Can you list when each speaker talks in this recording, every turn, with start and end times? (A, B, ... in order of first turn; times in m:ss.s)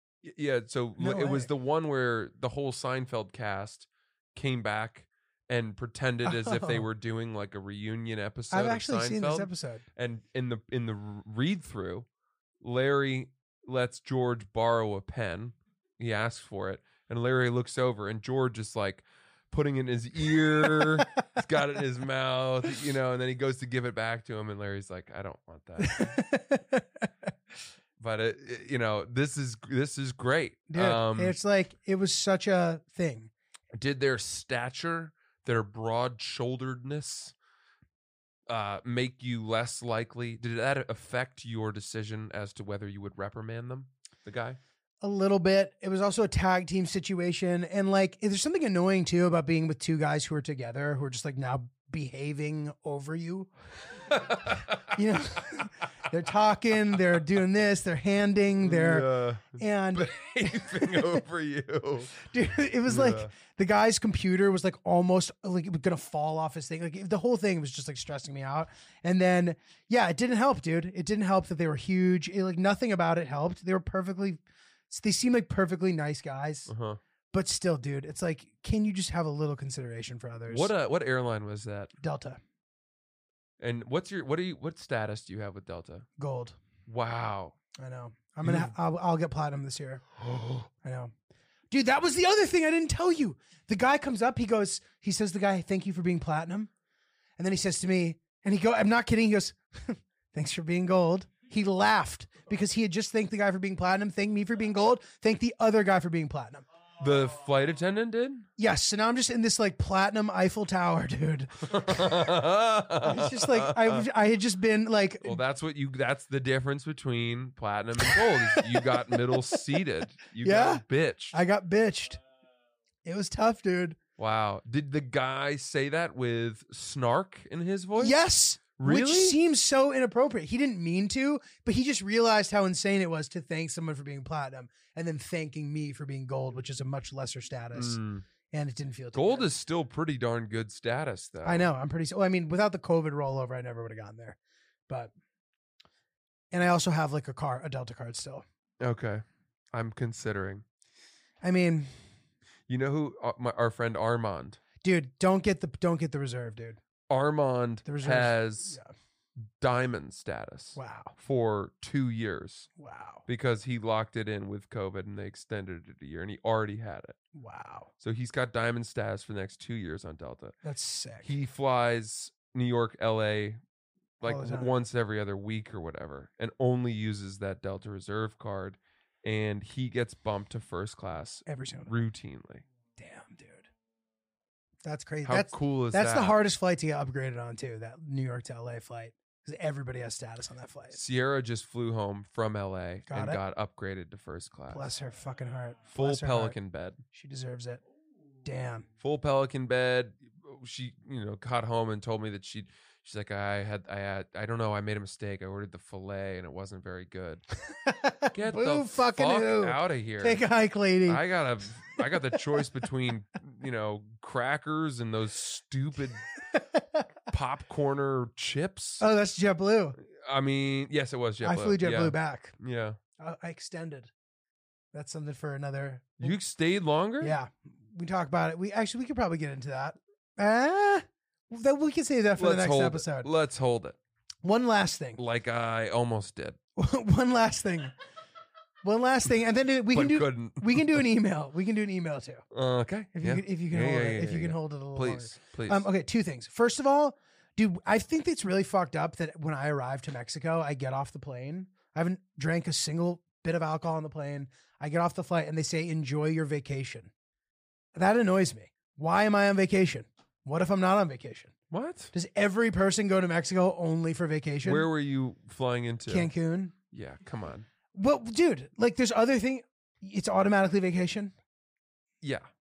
0:00.2-0:12.1 A
0:01.0-0:01.5 B
0:06.2-0:06.8 B
0:08.5-0:09.8 B
0:12.6-0:26.2 A
0:25.8-0:27.1 B
0:28.0-0:31.4 A
0:30.7-0:33.3 B
0:33.7-0:37.3 A
0:38.5-0:44.6 A
0:45.0-0:53.5 B
0:54.1-0:54.9 A
0:54.8-1:01.2 B
0:58.6-1:02.1 A
1:02.2-1:16.7 B
1:02.9-1:03.3 A
1:16.7-1:17.0 A
1:17.3-1:20.7 B
1:20.5-1:21.9 A
1:22.0-1:22.4 B
1:23.6-1:26.1 A
1:26.2-1:26.6 B
1:26.8-1:27.6 A
1:27.8-1:30.0 B
1:28.4-1:28.7 A
1:30.2-1:30.7 A
1:30.8-1:31.1 B
1:31.7-1:36.7 B
1:37.4-1:46.6 B
1:47.0-1:48.5 A
1:48.6-1:52.2 B
1:51.6-1:54.0 A
1:53.0-1:55.4 B
1:55.2-2:01.4 A
1:58.0-1:59.6 B
2:00.4-2:02.2 B
2:03.0-2:04.0 B
2:04.2-2:08.2 A
2:08.0-2:19.5 B
2:08.8-2:09.4 A
2:17.7-2:18.2 A
2:19.1-2:21.7 A
2:21.4-2:25.1 B
2:26.5-2:28.4 B
2:28.8-2:30.6 A
2:31.4-2:31.9 B
2:32.7-2:34.6 A
2:34.8-2:36.8 B
2:37.1-2:38.8 A
2:37.8-2:38.9 B
2:39.4-2:42.7 A
2:40.8-2:41.1 B
2:42.8-2:43.2 B
2:43.3-2:47.2 A
2:47.3-2:47.9 B
2:48.0-2:50.5 A
2:50.6-2:51.4 B
2:51.2-2:53.6 A
2:54.2-3:02.6 A
2:54.2-2:54.7 B
3:01.4-3:01.9 B
3:03.0-3:03.7 B
3:04.8-3:11.0 B
3:05.2-3:06.4 A
3:10.9-3:14.9 A
3:13.1-3:13.4 B
3:14.7-3:16.6 B
3:15.9-3:17.0 A
3:17.1-3:17.8 B
3:18.4-3:18.8 B
3:19.0-3:27.4 A
3:27.8-3:31.2 B
3:28.3-3:30.5 A
3:31.0-3:36.3 A
3:36.5-3:37.0 B
3:37.3-3:39.0 A
3:39.0-3:40.0 B
3:40.0-3:43.0 A
3:41.4-3:42.5 B
3:43.2-3:44.1 B
3:44.9-3:46.4 B
3:46.2-3:47.4 A
3:47.2-3:53.3 B
3:52.4-3:54.0 A
3:54.4-3:55.2 B
3:55.2-3:56.6 A
3:56.8-3:57.9 B
3:58.8-4:02.4 B
3:59.9-4:01.0 A
4:02.5-4:05.9 A
4:03.1-4:17.1 B
4:17.9-4:21.5 B
4:21.7-4:22.1 A
4:22.1-4:24.9 B
4:24.6-4:26.3 A
4:26.1-4:26.7 B
4:26.9-4:27.7 A
4:27.9-4:31.3 B
4:32.2-4:32.5 A